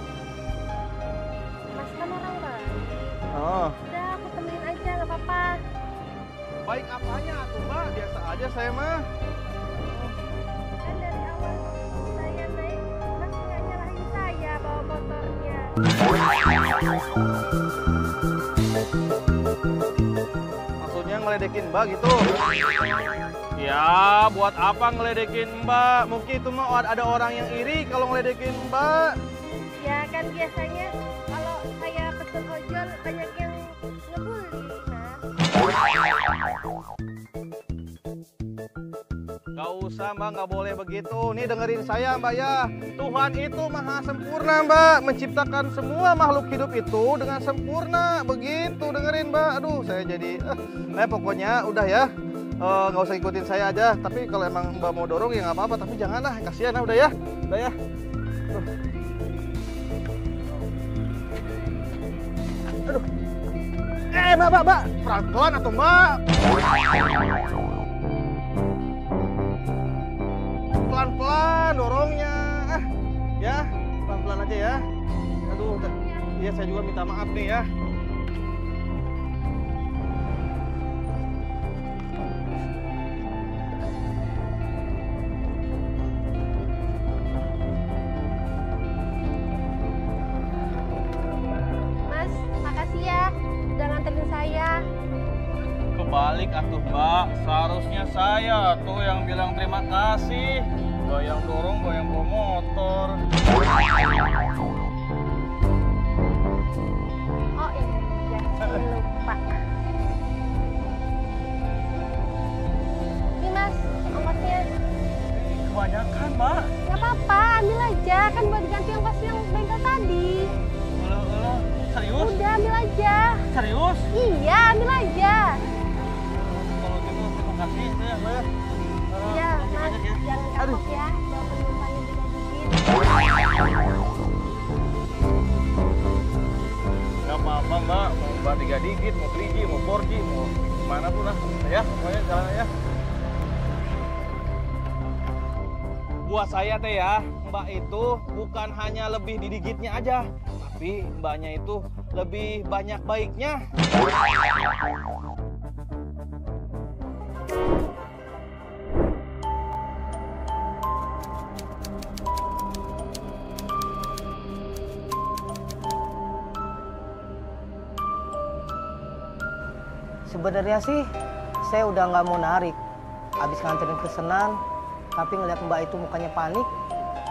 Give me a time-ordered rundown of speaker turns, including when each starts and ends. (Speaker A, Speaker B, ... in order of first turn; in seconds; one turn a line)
Speaker A: 1.7-3.1
Speaker B: 3.3-3.7
Speaker A: 3.9-5.6
Speaker B: 6.6-9.0
Speaker A: 10.8-15.7
Speaker B: 20.8-22.2
Speaker B: 23.6-29.1
Speaker A: 29.8-35.2
Speaker B: 39.5-52.1
Speaker B: 52.6-57.7
Speaker B: 64.1-66.2
Speaker B: 70.8-72.9
Speaker B: 73.4-74.8
Speaker B: 75.5-77.7
Speaker A: 76.0-76.2
Speaker A: 92.1-94.8
Speaker B: 95.9-103.2
Speaker A: 107.6-109.6
Speaker A: 113.4-114.6
Speaker B: 115.3-116.7
Speaker A: 116.8-120.5
Speaker B: 121.0-122.3
Speaker A: 122.2-123.4
Speaker B: 123.5-124.1
Speaker A: 124.1-125.6
Speaker B: 126.3-128.4
Speaker B: 129.1-130.8
Speaker A: 129.3-133.0
Speaker B: 137.2-142.7
Speaker B: 146.2-153.6
Speaker C: 170.3-171.1
Speaker C: 171.6-172.8
Speaker C: 173.4-174.6
Speaker C: 175.1-176.7